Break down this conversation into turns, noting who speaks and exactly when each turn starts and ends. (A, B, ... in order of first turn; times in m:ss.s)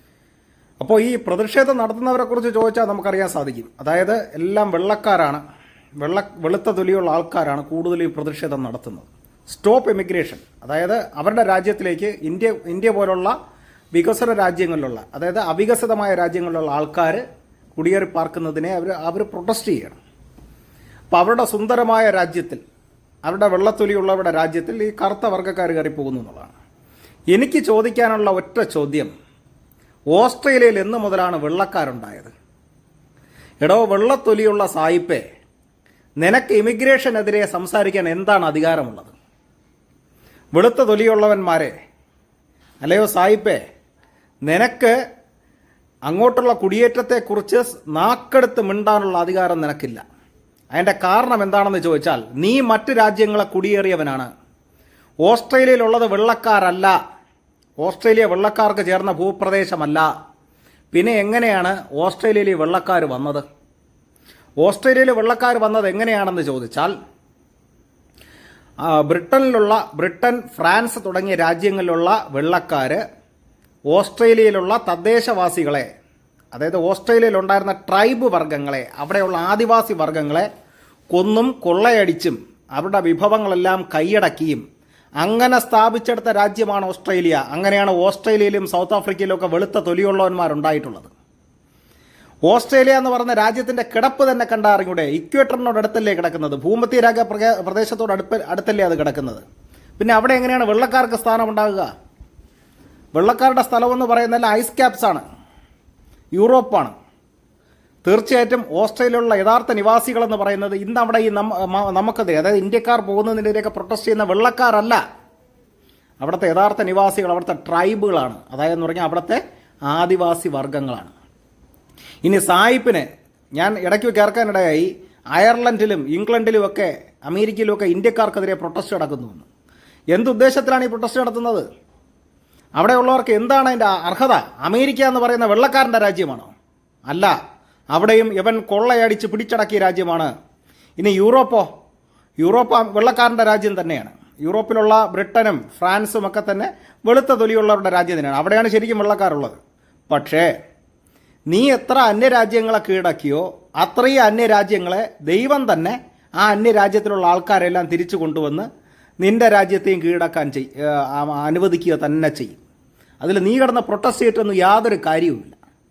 0:00.8-0:05.4 A
0:06.0-0:13.4 A
0:13.9-0:17.2 A
0:17.7-0:20.0 A
0:21.1-0:22.6 A
0:23.2-0:26.5 A
0:27.3-0:29.1 A
0:30.1-0:32.3 A
0:33.6-0:35.2 A
0:36.2-0:39.1 A
0:40.5-0:41.7 A
0:42.8-0:43.6 A
0:44.4-0:45.0 A
0:46.1-0:50.0 A
0:50.8-0:54.3 A
0:55.2-0:56.9 A
0:57.8-1:00.1 A
1:00.9-1:03.4 A
1:04.6-1:06.9 A
1:08.8-1:13.0 A
1:13.9-1:15.9 A
1:16.5-1:20.5 A
1:21.1-1:24.6 A
1:25.2-1:31.1 A
1:32.5-1:39.4 A
1:40.0-1:41.9 A
1:43.2-1:45.2 A
1:46.4-1:46.9 A
1:48.0-1:55.0 A
1:56.2-2:01.1 A
2:02.2-2:09.5 A
2:10.1-2:11.7 A
2:12.8-2:16.5 A
2:17.1-2:17.4 A
2:17.9-2:20.3 A
2:21.0-2:21.7 A
2:22.4-2:29.6 A
2:30.1-2:30.5 A
2:31.5-2:38.7 A
2:39.2-2:42.6 A
2:43.2-2:45.6 A